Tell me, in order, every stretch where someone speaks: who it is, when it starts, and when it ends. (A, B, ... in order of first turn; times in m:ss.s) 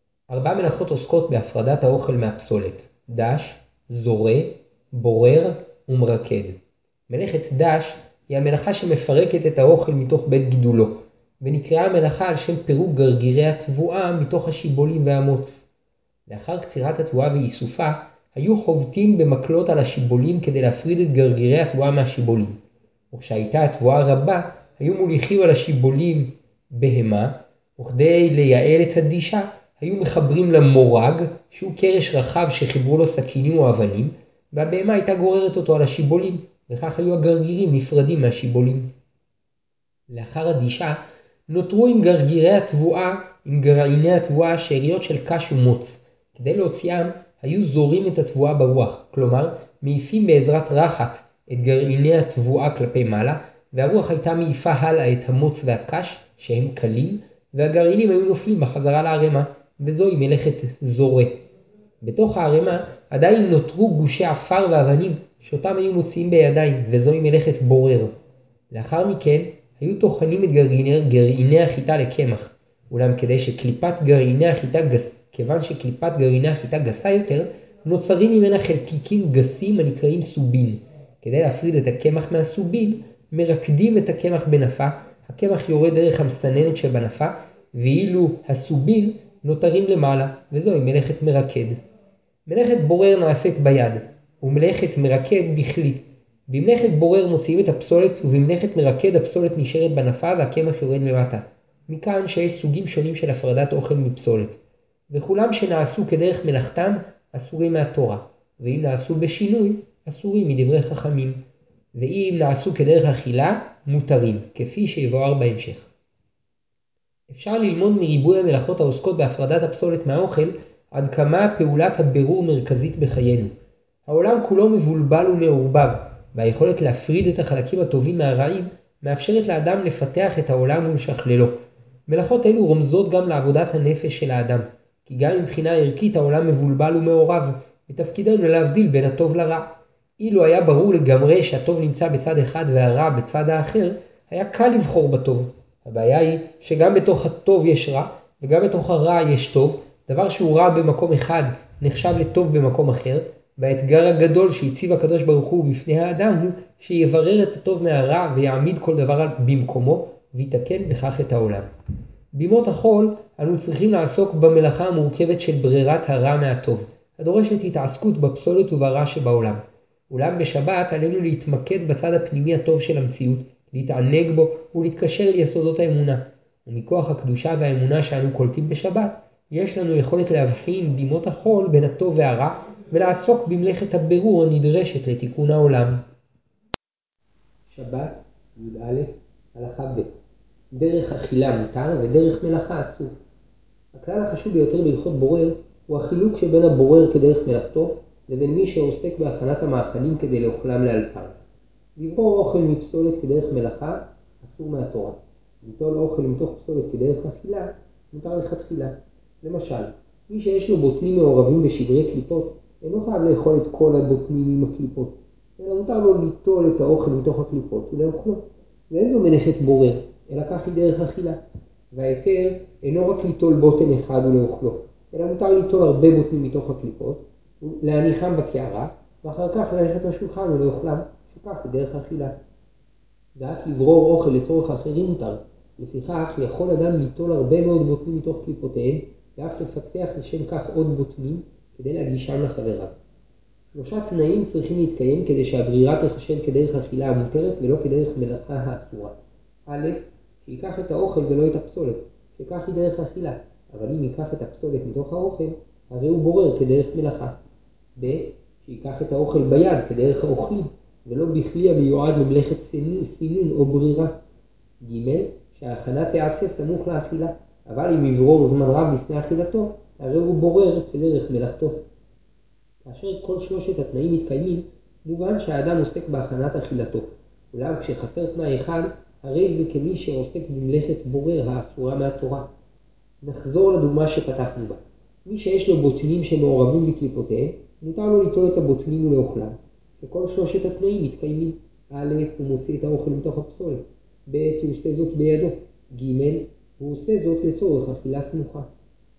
0:00.3-0:15.7 A
0:16.3-0:22.6 A
0:23.1-0:38.9 A
0:40.1-1:01.4 A
1:02.0-1:08.1 A
1:08.7-1:31.8 A
1:32.5-1:44.6 A
1:45.1-1:51.4 A
1:52.0-1:55.9 A
1:57.3-2:03.5 A
2:04.1-2:41.7 A
2:42.3-3:06.0 A
3:07.7-3:10.1 A
3:10.7-3:13.1 A
3:13.9-3:21.4 A
3:22.0-3:41.4 A
3:41.9-3:52.4 A
3:53.4-4:02.9 A
4:03.7-4:09.2 A
4:09.7-4:17.4 A
4:18.0-4:24.2 A
4:24.8-4:31.8 A
4:32.8-4:42.5 A
4:43.2-4:58.7 A